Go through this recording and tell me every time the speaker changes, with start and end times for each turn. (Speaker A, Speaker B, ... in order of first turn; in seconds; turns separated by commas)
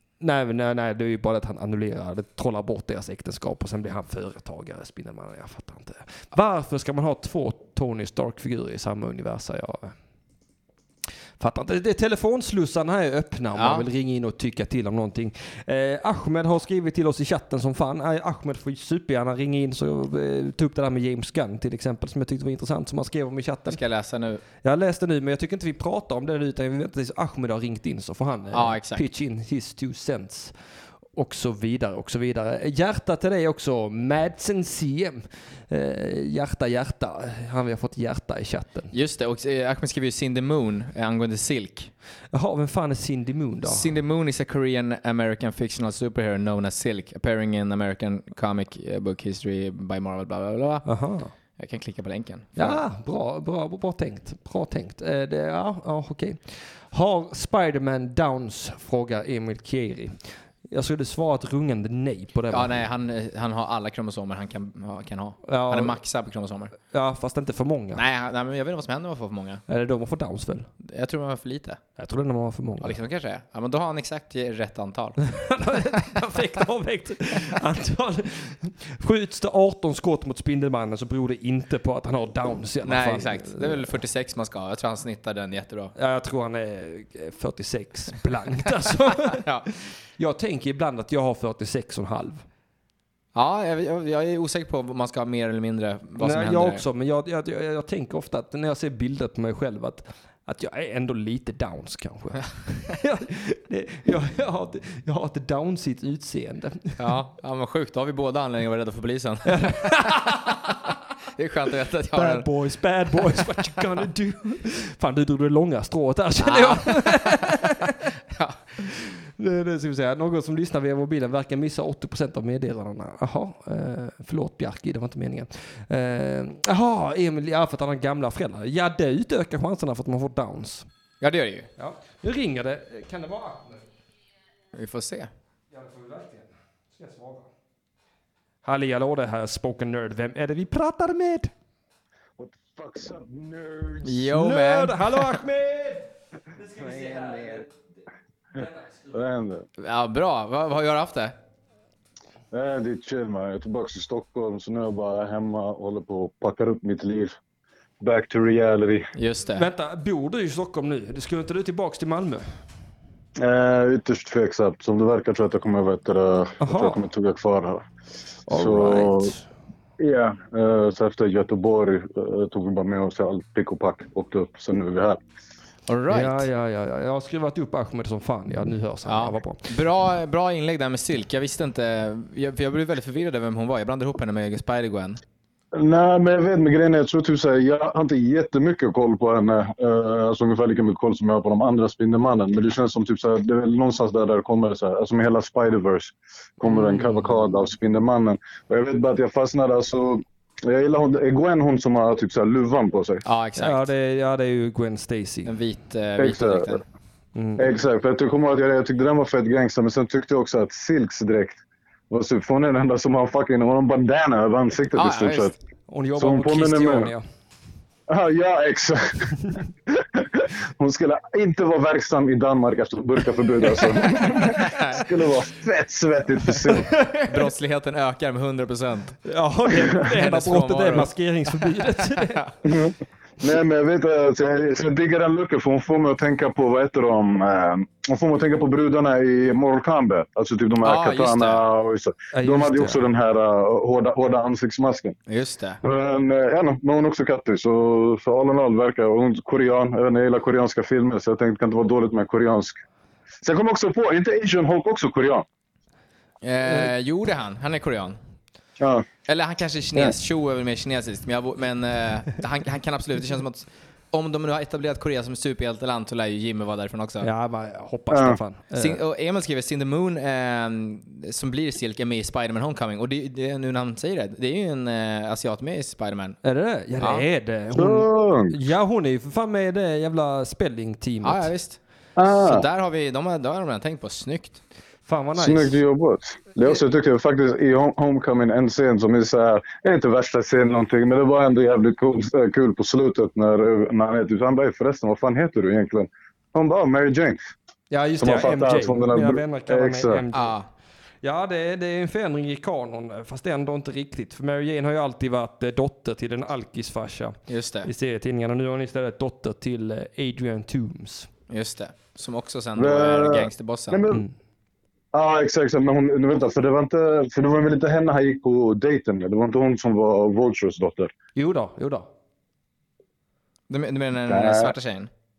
Speaker A: 0.2-9.9, Speaker A: 11.4-23.8, Speaker B: 13.5-13.8, Speaker B: 23.7-24.4, Speaker A: 24.6-30.5, Speaker B: 28.5-29.0, Speaker A: 31.1-38.9, Speaker B: 38.9-41.9, Speaker A: 42.3-43.9, Speaker B: 43.6-50.9, Speaker A: 50.8-51.3, Speaker B: 51.6-52.8, Speaker A: 52.5-62.7, Speaker B: 62.5-66.7, Speaker A: 65.4-66.0, Speaker A: 66.9-68.0, Speaker B: 67.9-69.6, Speaker A: 69.7-70.7, Speaker B: 70.8-71.8, Speaker A: 72.0-73.0, Speaker B: 72.8-75.2, Speaker A: 75.2-84.0, Speaker B: 82.8-85.9, Speaker A: 86.0-89.5, Speaker B: 89.2-89.7, Speaker A: 90.2-92.4, Speaker B: 93.3-96.8, Speaker A: 96.2-107.1, Speaker B: 107.0-110.8, Speaker A: 109.5-110.9, Speaker B: 111.3-112.5, Speaker A: 112.1-118.1, Speaker B: 116.4-118.6, Speaker A: 118.8-130.8, Speaker B: 131.2-131.7, Speaker A: 131.8-133.9, Speaker B: 134.7-135.3, Speaker A: 135.7-137.5, Speaker A: 138.6-141.5, Speaker C: 142.4-144.3, Speaker B: 144.0-145.3, Speaker A: 144.3-147.8, Speaker A: 148.5-149.2, Speaker C: 149.1-149.7, Speaker B: 149.8-151.3, Speaker C: 152.5-157.4, Speaker C: 158.0-159.1, Speaker B: 159.1-159.7, Speaker A: 159.6-162.4, Speaker C: 163.4-167.8, Speaker A: 166.6-167.0, Speaker A: 168.5-169.4, Speaker C: 168.5-169.3, Speaker C: 170.0-175.2, Speaker B: 175.9-176.5, Speaker A: 176.1-179.7, Speaker B: 179.1-185.2, Speaker C: 185.7-203.2, Speaker A: 196.7-197.3, Speaker B: 203.2-203.9, Speaker A: 203.6-205.5, Speaker B: 205.4-206.8, Speaker C: 206.2-206.8, Speaker A: 207.3-207.7, Speaker C: 207.6-211.6, Speaker C: 212.1-215.5, Speaker B: 214.9-215.6, Speaker A: 215.9-217.2, Speaker C: 216.2-217.1, Speaker C: 218.1-226.9, Speaker B: 224.2-225.0, Speaker A: 226.6-227.4, Speaker B: 227.2-229.2, Speaker A: 229.2-232.4, Speaker B: 230.0-232.5, Speaker C: 232.6-245.2, Speaker B: 240.8-241.6, Speaker A: 242.3-243.0, Speaker B: 245.3-245.8, Speaker C: 245.8-252.8, Speaker C: 253.4-255.4, Speaker B: 256.4-258.2, Speaker C: 258.8-259.1, Speaker B: 259.2-267.3, Speaker A: 267.2-269.0, Speaker C: 268.1-268.4, Speaker B: 268.7-276.4, Speaker A: 276.4-281.5, Speaker B: 277.0-277.2, Speaker C: 277.7-278.6, Speaker B: 281.2-284.6, Speaker C: 282.1-282.6, Speaker A: 285.1-285.8, Speaker C: 285.4-297.4, Speaker A: 297.9-300.6, Speaker C: 298.2-300.2, Speaker B: 300.3-300.6, Speaker A: 301.2-311.3, Speaker B: 307.5-307.9, Speaker B: 311.5-314.0, Speaker C: 312.8-314.2, Speaker C: 315.1-321.1, Speaker A: 321.4-322.1, Speaker B: 323.7-325.1, Speaker C: 324.3-324.7